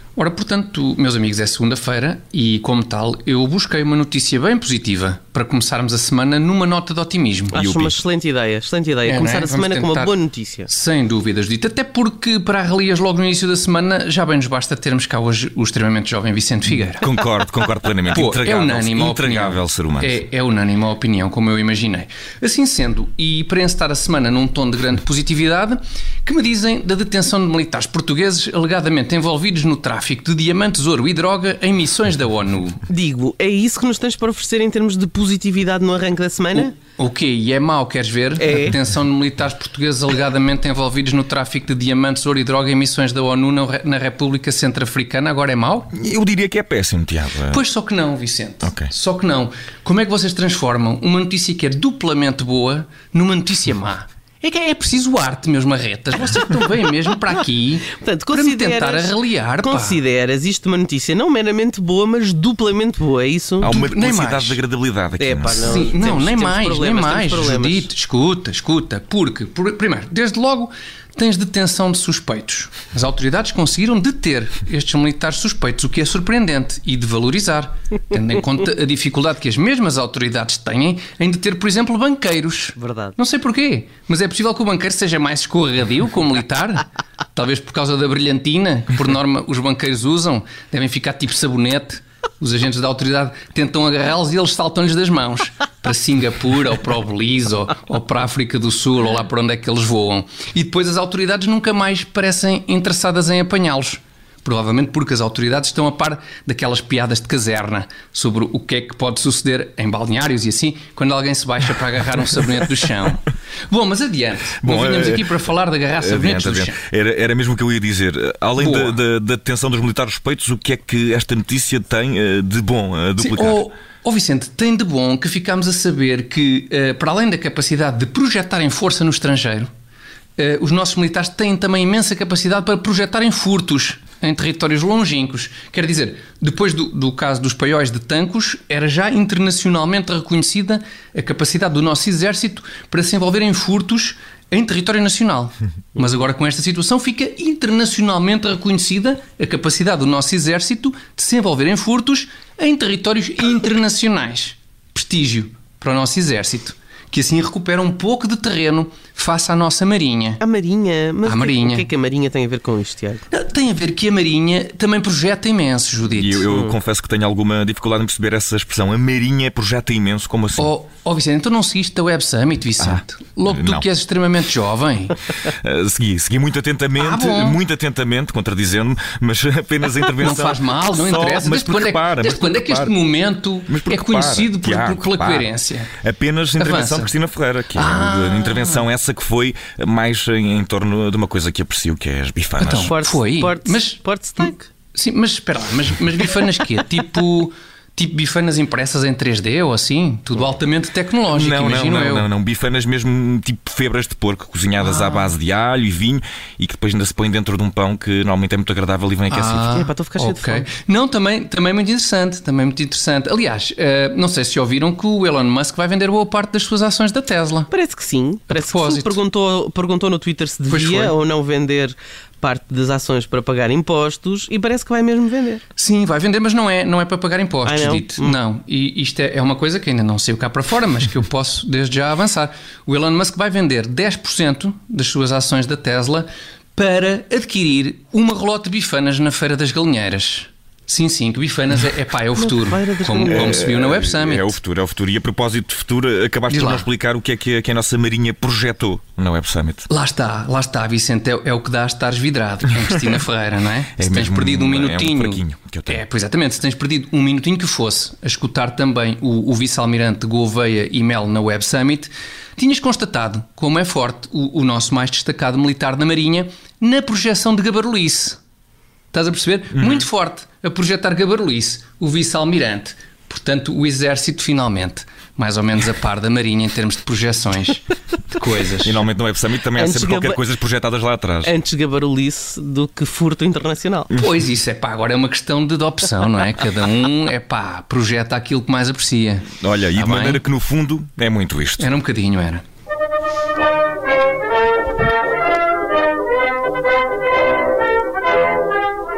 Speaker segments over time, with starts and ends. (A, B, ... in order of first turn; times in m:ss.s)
0:00.2-0:07.6 A
0:07.5-0:08.0 B
0:07.5-0:10.7 C
0:09.0-0:10.2 A
0:10.7-0:17.1 A
0:17.0-0:20.2 B
0:18.1-0:32.8 A
0:32.9-0:36.7 C
0:36.6-0:45.9 A
0:38.4-0:38.8 C
0:45.9-0:47.6 B
0:47.5-1:00.0 A
0:48.6-0:48.9 B
0:57.9-1:03.7 C
1:03.6-1:05.8 B
1:03.6-1:04.6 A
1:05.2-1:07.9 C
1:05.6-1:56.8 A
1:22.8-1:23.1 C
1:54.6-1:55.3 B
1:56.0-2:03.6 B
1:58.6-1:59.0 A
2:03.2-2:09.7 A
2:10.4-2:40.4 A
2:40.4-2:43.2 C
2:41.2-2:41.9 A
2:43.3-2:46.5 A
2:46.1-2:50.7 B
2:46.5-2:46.8 C
2:50.6-2:55.2 A
2:52.8-2:53.8 B
2:55.5-3:02.9 B
2:57.0-2:57.6 A
3:00.2-3:05.9 A
3:03.7-3:13.0 B
3:06.6-3:07.1 A
3:07.8-3:08.9 A
3:12.6-3:22.3 A
3:12.8-3:14.7 C
3:21.3-3:29.7 B
3:24.8-3:25.4 A
3:29.3-3:37.7 A
3:29.7-3:30.7 C
3:37.7-3:45.6 C
3:38.5-3:39.2 A
3:40.7-3:41.2 A
3:45.8-4:04.6 A
3:47.7-3:48.4 C
4:02.4-4:03.6 C
4:03.3-4:09.9 B
4:06.5-4:06.9 A
4:09.9-4:28.4 A
4:14.0-4:16.0 B
4:29.1-4:39.0 A
4:29.7-4:30.1 B
4:38.8-4:41.5 B
4:39.7-4:40.4 C
4:41.4-4:44.1 C
4:44.1-4:44.4 B
4:44.2-4:50.4 A
4:49.6-4:51.9 B
4:51.8-4:52.6 A